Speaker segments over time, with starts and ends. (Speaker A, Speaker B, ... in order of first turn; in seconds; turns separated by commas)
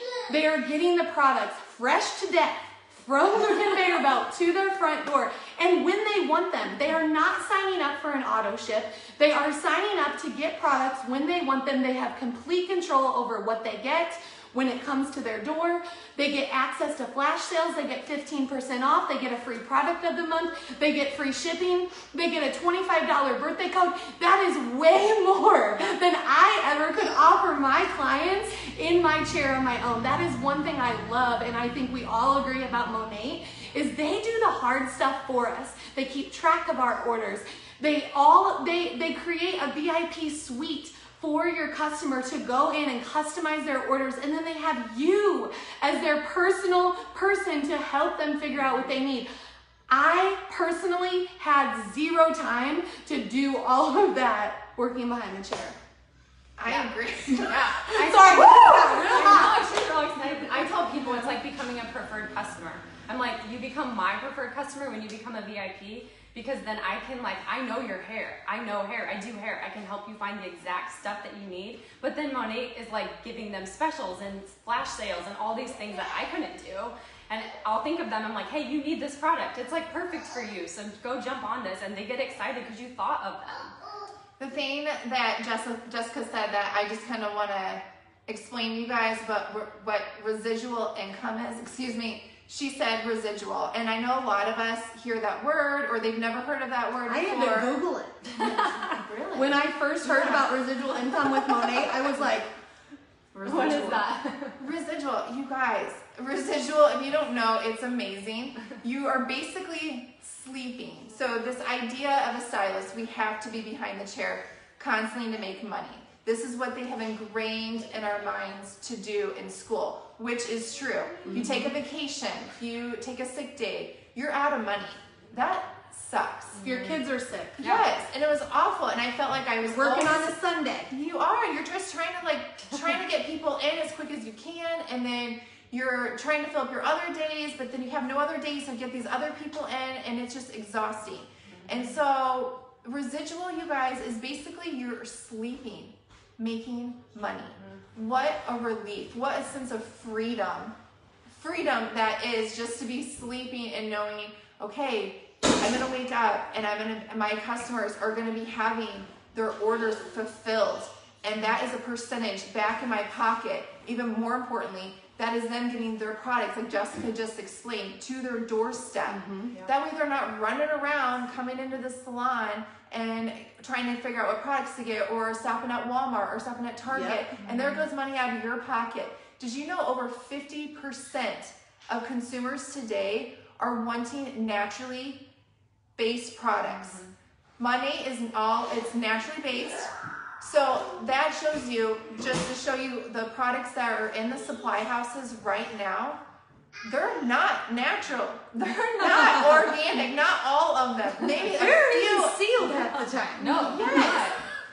Speaker A: 0.3-49.3, Speaker A: 49.9-55.8, Speaker B: 56.6-57.8, Speaker C: 56.6-83.8, Speaker A: 57.3-59.7, Speaker B: 60.9-61.3, Speaker B: 84.4-97.7, Speaker A: 97.0-98.7, Speaker C: 98.4-99.0, Speaker B: 98.4-99.5, Speaker A: 99.3-102.5, Speaker B: 100.0-100.5, Speaker B: 103.3-104.0, Speaker C: 103.4-104.6, Speaker B: 104.6-126.6, Speaker A: 121.2-121.8, Speaker C: 126.5-127.0, Speaker A: 126.6-127.6, Speaker C: 127.6-127.9, Speaker B: 127.6-130.4, Speaker A: 129.6-130.9, Speaker B: 130.9-150.8, Speaker C: 141.5-142.0, Speaker B: 151.3-185.2, Speaker A: 169.0-169.5, Speaker A: 176.9-177.3, Speaker C: 177.4-177.8, Speaker B: 185.9-187.0, Speaker C: 186.7-187.1, Speaker B: 187.6-196.2, Speaker B: 196.8-202.8, Speaker C: 199.1-199.7, Speaker A: 201.5-204.2, Speaker C: 203.3-204.4, Speaker B: 203.5-204.3